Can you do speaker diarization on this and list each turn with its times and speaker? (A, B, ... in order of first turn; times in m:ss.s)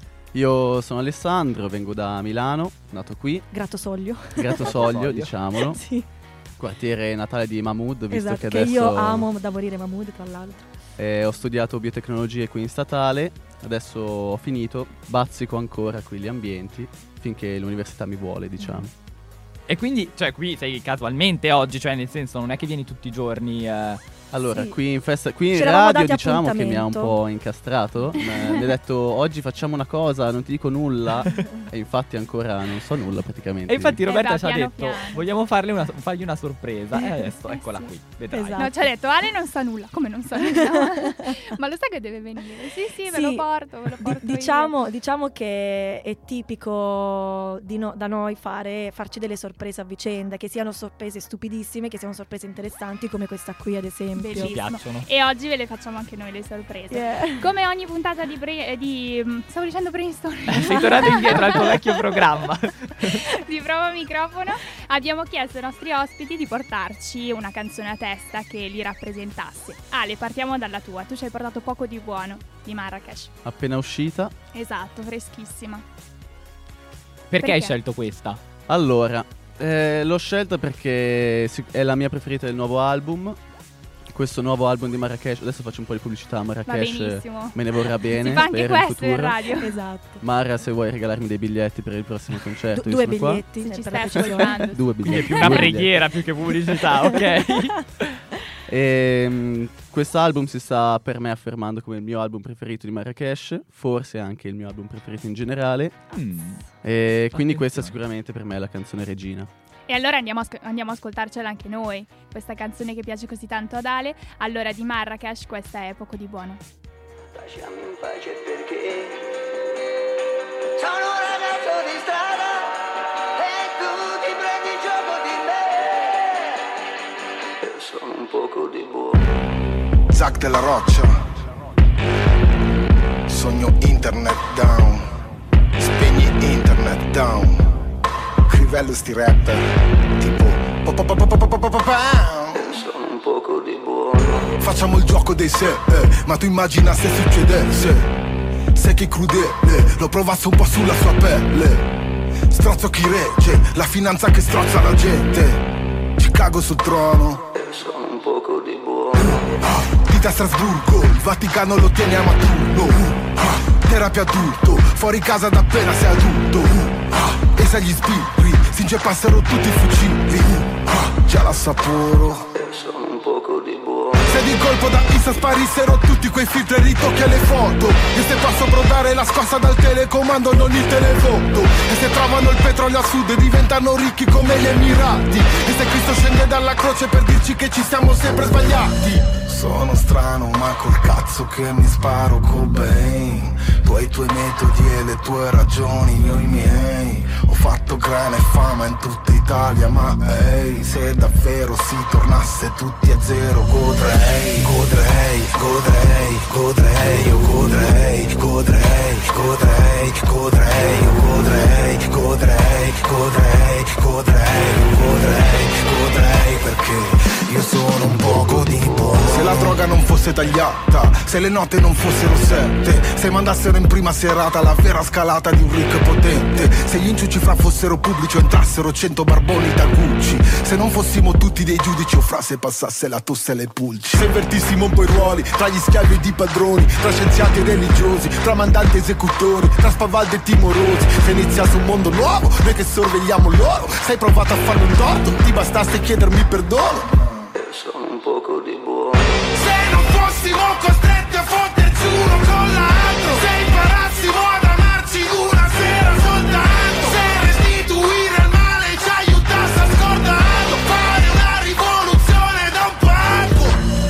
0:00.3-0:03.5 A
0:03.5-0:04.7 B
0:04.4-0:05.8 A
0:04.5-0:05.3 C
0:05.6-0:06.1 B
0:06.6-0:09.3 A
0:08.1-0:10.7 B
0:11.0-0:18.9 A
0:19.7-0:24.0 C
0:24.3-0:34.0 A
0:25.5-0:27.2 B
0:33.7-0:38.7 C
0:34.1-0:35.2 D
0:37.5-0:37.9 D
0:38.3-0:38.7 B
0:38.6-0:44.7 D
0:40.4-0:41.4 B
0:43.1-0:43.5 B
0:44.0-0:54.6 B
0:54.2-1:01.8 D
0:54.4-0:55.1 C
0:56.9-0:57.5 B
1:00.5-1:03.3 C
1:03.0-1:13.3 D
1:13.4-1:14.3 A
1:14.5-1:15.8 D
1:17.3-1:18.4 C
1:17.4-1:17.7 D
1:18.7-1:23.4 A
1:24.1-1:29.4 A
1:26.7-1:29.8 D
1:29.6-1:30.2 B
1:30.2-1:33.4 A
1:32.7-1:34.7 B
1:33.6-1:35.8 D
1:34.2-1:36.0 A
1:35.1-1:38.2 C
1:36.8-1:37.7 B
1:38.7-1:46.0 A
1:46.1-1:46.6 C
1:46.8-1:49.5 A
1:47.3-1:48.0 C
1:49.9-1:56.6 D
1:57.7-1:58.7 E
2:00.9-2:02.3 E
2:03.6-2:05.0 E
2:10.1-2:11.2 F
2:13.3-2:15.2 F
2:15.8-2:17.7 F
2:18.5-2:22.8 F
2:24.6-2:28.1 F
2:28.8-2:31.9 F
2:32.5-2:37.4 F
2:39.1-2:52.5 F
2:54.2-4:07.5 F
4:09.4-4:23.8 F